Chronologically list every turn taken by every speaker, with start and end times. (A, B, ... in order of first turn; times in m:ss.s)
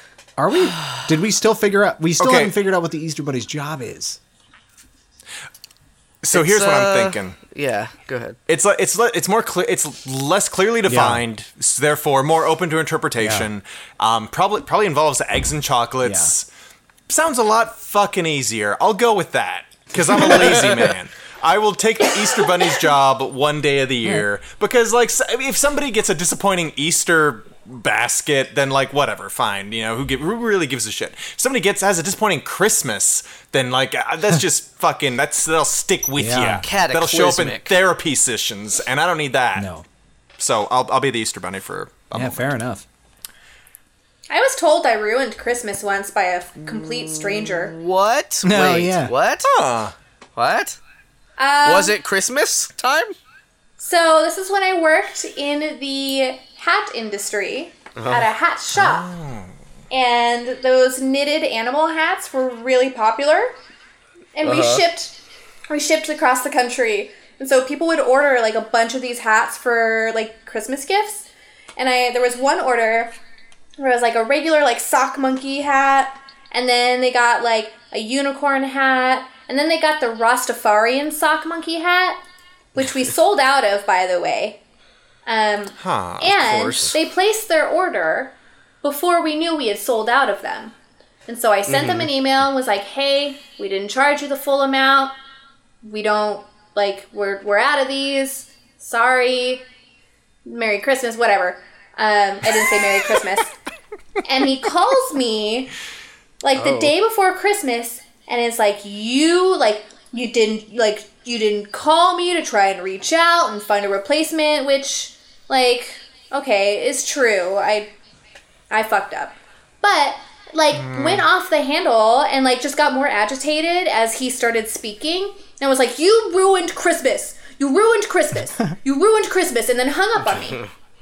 0:00.4-0:04.2 A
0:02.2-0:02.5 B
0:06.2-0:07.4 B
0:06.3-0:08.4 C
0:08.5-0:16.5 B
0:10.9-0:11.2 A
0:13.2-0:13.5 A
0:16.0-0:16.3 A
0:17.1-0:39.7 B
0:36.2-0:36.6 A
0:36.6-0:37.7 C
0:39.6-0:39.8 A
0:40.4-0:42.5 B
0:42.1-0:42.8 A
0:44.3-0:47.8 D
0:46.7-0:49.5 C
0:48.4-0:49.1 A
0:49.4-0:49.9 B
0:50.4-0:50.8 C
0:51.4-0:51.9 D
0:51.6-0:53.1 C
0:53.8-0:59.1 D
0:58.0-0:58.3 C
0:58.8-0:59.5 B
0:59.9-1:03.6 D
1:04.4-1:13.1 D
1:04.4-1:04.8 C
1:13.8-1:22.2 D
1:22.7-1:24.6 D
1:25.3-1:30.7 D
1:25.8-1:27.0 B
1:31.3-1:35.2 D
1:31.7-1:32.1 C
1:35.8-1:39.6 D
1:40.4-1:43.5 D
1:44.2-1:45.7 D
1:46.4-1:57.9 D
1:46.6-1:46.9 C
1:58.7-2:10.6 D
2:00.7-2:01.3 B